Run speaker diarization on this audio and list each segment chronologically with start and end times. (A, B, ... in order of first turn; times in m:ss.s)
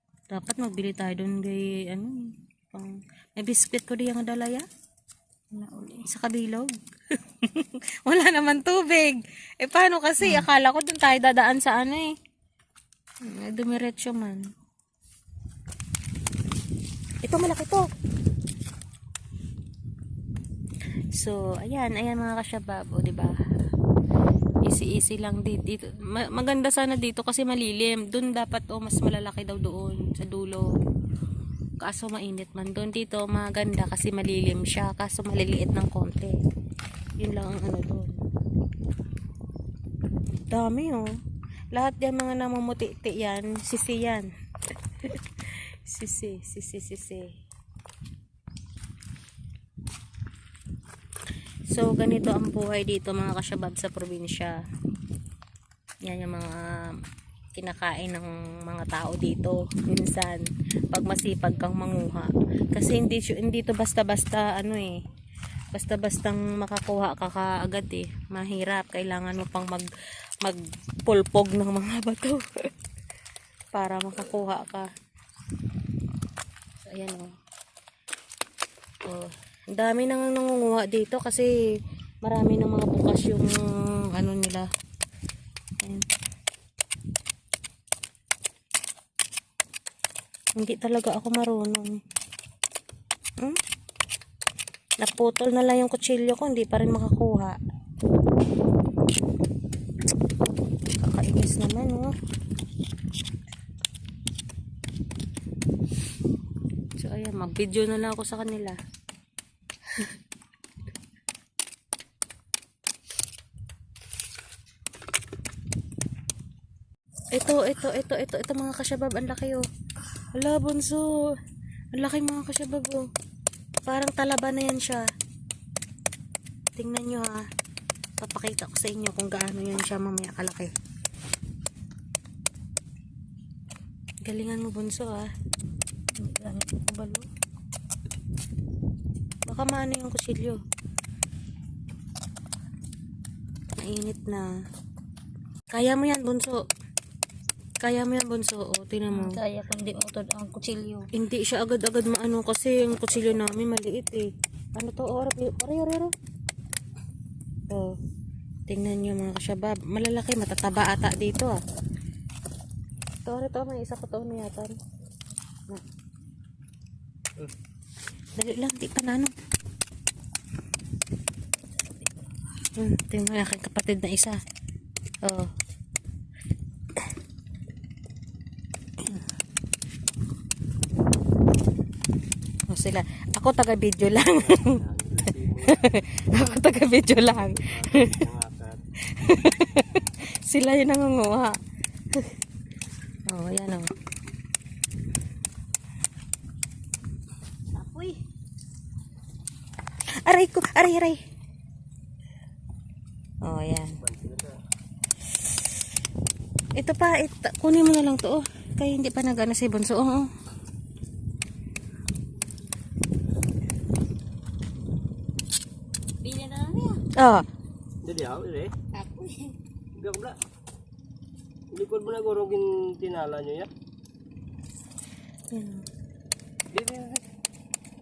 0:00.3-0:04.6 A
0:05.5-0:06.1 B
0:06.1-0:12.1 A
0:10.2-0:10.5 B
0:13.2-0:14.5 A
0:17.2-0:17.8 A
0:21.1-0:23.4 A
0:24.6-0:30.7 A
0:31.8-0:36.4 A
0:37.2-0:38.2 A
0:40.5-0:41.1 A
0:41.7-0:44.3 A
0:45.0-0:47.3 A
0:51.7-0:54.6 A
0:56.0-0:57.0 A
0:57.6-1:05.0 A
1:05.7-1:09.9 A
1:10.4-1:12.4 A
1:13.7-1:14.9 A
1:16.8-1:17.3 A
1:19.0-1:21.5 A
1:22.2-1:24.7 A
1:30.6-1:32.0 A
1:35.0-1:37.6 A
1:41.0-1:42.1 A
1:47.0-1:48.8 A
1:57.3-1:59.7 A
2:00.4-2:01.3 A
2:01.9-2:03.1 A
2:03.9-2:05.1 A
2:06.8-2:07.4 A
2:08.2-2:10.7 A
2:14.2-2:15.3 A
2:16.1-2:17.3 B
2:19.5-2:20.6 A
2:23.8-2:24.5 A
2:25.7-2:26.6 A
2:27.8-2:29.4 A
2:29.1-2:31.1 B
2:31.1-2:36.1 A
2:37.7-2:38.0 A
2:38.7-2:41.6 A
2:43.3-2:44.8 A
2:48.4-2:49.3 A
2:52.8-2:54.4 A
2:55.2-2:55.5 A
3:02.7-3:04.8 A
3:04.4-3:05.8 C
3:05.6-3:08.2 A
3:07.4-3:08.8 C
3:09.1-3:11.5 A
3:13.3-3:13.9 A
3:17.7-3:18.2 B
3:20.3-3:21.2 A
3:23.4-3:24.0 A
3:24.0-3:24.6 C
3:26.8-3:30.3 A
3:36.2-3:37.0 B
3:37.2-3:37.4 A
3:38.0-3:38.7 C
3:38.9-3:39.6 B
3:40.0-3:40.4 C
3:41.7-3:43.7 C
3:45.5-3:45.8 A
3:46.7-3:47.2 C